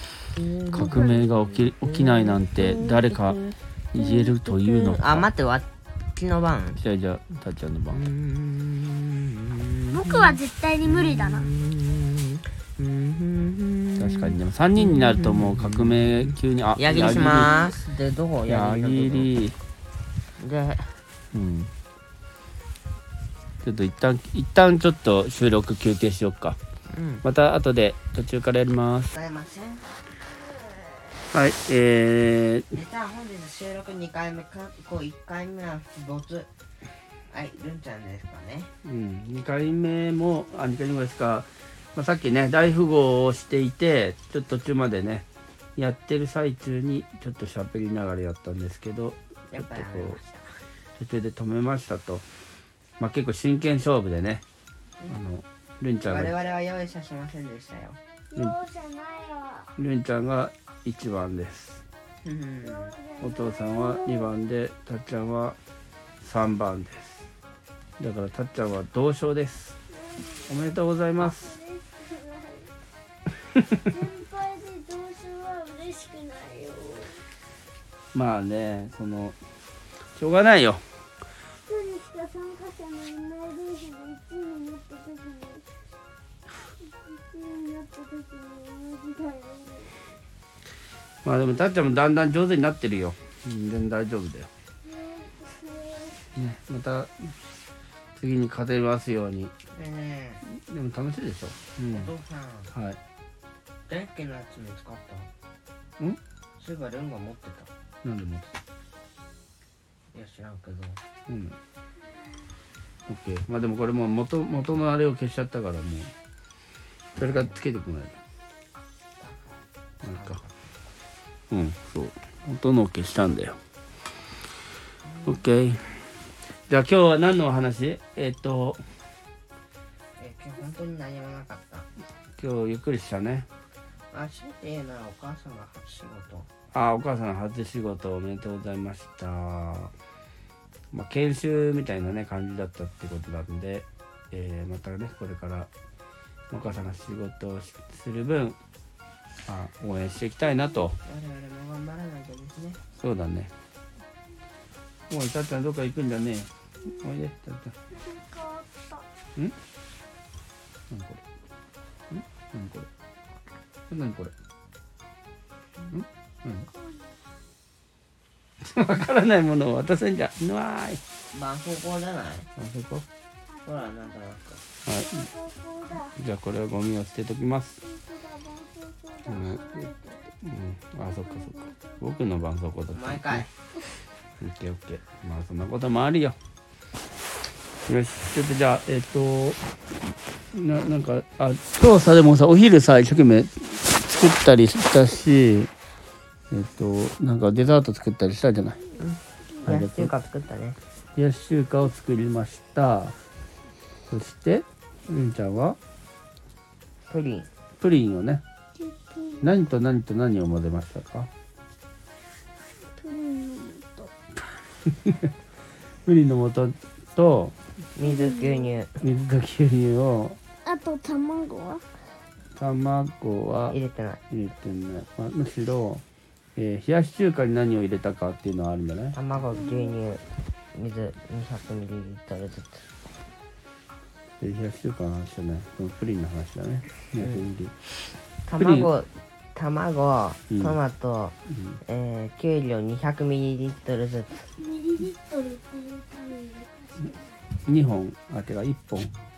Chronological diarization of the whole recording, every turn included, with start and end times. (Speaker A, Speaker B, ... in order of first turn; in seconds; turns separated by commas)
Speaker A: 0.4-6.8, Speaker B: 0.7-3.4, Speaker C: 0.8-1.1, Speaker B: 3.9-5.2, Speaker B: 6.8-8.1, Speaker A: 7.9-19.3, Speaker C: 9.9-11.5, Speaker B: 14.0-17.5, Speaker B: 18.5-19.6, Speaker A: 20.4-21.0, Speaker B: 21.3-21.7, Speaker B: 23.6-26.6, Speaker A: 26.9-27.2, Speaker B: 27.2-29.1, Speaker A: 29.1-29.9, Speaker B: 31.3-32.7, Speaker A: 32.7-36.5, Speaker A: 37.3-38.7, Speaker B: 38.8-50.2, Speaker A: 49.5-50.5, Speaker B: 51.0-52.2, Speaker B: 53.0-54.4, Speaker B: 55.1-56.3, Speaker A: 56.0-58.0, Speaker C: 58.3-59.7, Speaker B: 59.8-61.8, Speaker A: 62.2-62.9, Speaker C: 62.6-64.4, Speaker B: 63.2-65.6, Speaker B: 66.2-67.2, Speaker B: 68.0-69.8, Speaker C: 69.9-70.5, Speaker B: 70.5-71.5, Speaker C: 71.2-72.7, Speaker C: 73.8-77.2, Speaker B: 78.1-79.4, Speaker B: 80.2-80.8, Speaker C: 81.7-85.7, Speaker C: 86.9-89.9, Speaker B: 91.2-94.5, Speaker C: 94.8-96.2, Speaker B: 96.3-97.3, Speaker B: 98.2-99.5, Speaker A: 99.7-100.4, Speaker B: 100.5-102.1, Speaker A: 101.9-102.7, Speaker B: 102.7-103.0, Speaker A: 103.9-105.3, Speaker A: 106.6-107.7, Speaker B: 108.0-108.5, Speaker A: 110.1-111.0, Speaker B: 111.3-111.6, Speaker B: 113.1-116.1, Speaker B: 117.2-118.2, Speaker A: 117.2-117.6, Speaker A: 119.2-120.6, Speaker B: 120.0-120.4, Speaker B: 121.5-123.6, Speaker A: 125.0-125.4, Speaker B: 125.2-126.0, Speaker B: 126.7-128.8, Speaker A: 130.2-131.9, Speaker B: 132.4-133.5, Speaker A: 134.1-136.5, Speaker B: 136.7-139.9, Speaker B: 140.9-145.7, Speaker B: 146.5-148.6, Speaker B: 149.5-151.0, Speaker A: 151.0-152.8, Speaker B: 153.0-153.5, Speaker B: 155.1-157.7, Speaker C: 157.9-159.0, Speaker B: 160.9-161.2, Speaker B: 162.1-162.9, Speaker B: 163.9-164.3, Speaker B: 165.9-166.7, Speaker C: 166.7-167.0, Speaker B: 168.6-171.0, Speaker A: 171.3-172.5, Speaker B: 172.6-173.0, Speaker A: 173.6-174.6, Speaker B: 174.9-175.3, Speaker C: 174.9-176.1, Speaker B: 176.1-177.8, Speaker C: 177.8-180.2, Speaker B: 179.3-179.9, Speaker B: 180.4-183.4, Speaker C: 181.3-182.1, Speaker A: 182.9-183.5, Speaker B: 184.4-186.3, Speaker B: 187.8-189.6, Speaker B: 190.5-195.7, Speaker B: 196.5-198.8, Speaker A: 199.0-200.8, Speaker B: 199.6-200.1, Speaker B: 201.2-203.1, Speaker B: 204.1-205.8, Speaker A: 207.1-207.5, Speaker B: 207.8-208.4, Speaker C: 208.8-209.6, Speaker B: 209.4-211.3, Speaker C: 213.0-214.1, Speaker B: 214.9-215.3, Speaker B: 216.1-217.5, Speaker A: 217.9-219.0, Speaker C: 218.0-218.7, Speaker B: 219.0-220.4, Speaker C: 220.6-221.8, Speaker B: 222.6-223.8, Speaker A: 223.7-224.2, Speaker B: 224.3-226.0, Speaker B: 226.6-229.2, Speaker A: 229.1-232.8, Speaker C: 229.6-229.9, Speaker B: 234.4-237.7, Speaker A: 237.2-237.4, Speaker A: 238.4-244.4, Speaker B: 238.6-238.9, Speaker B: 240.5-240.8, Speaker C: 244.6-247.3, Speaker B: 247.7-249.1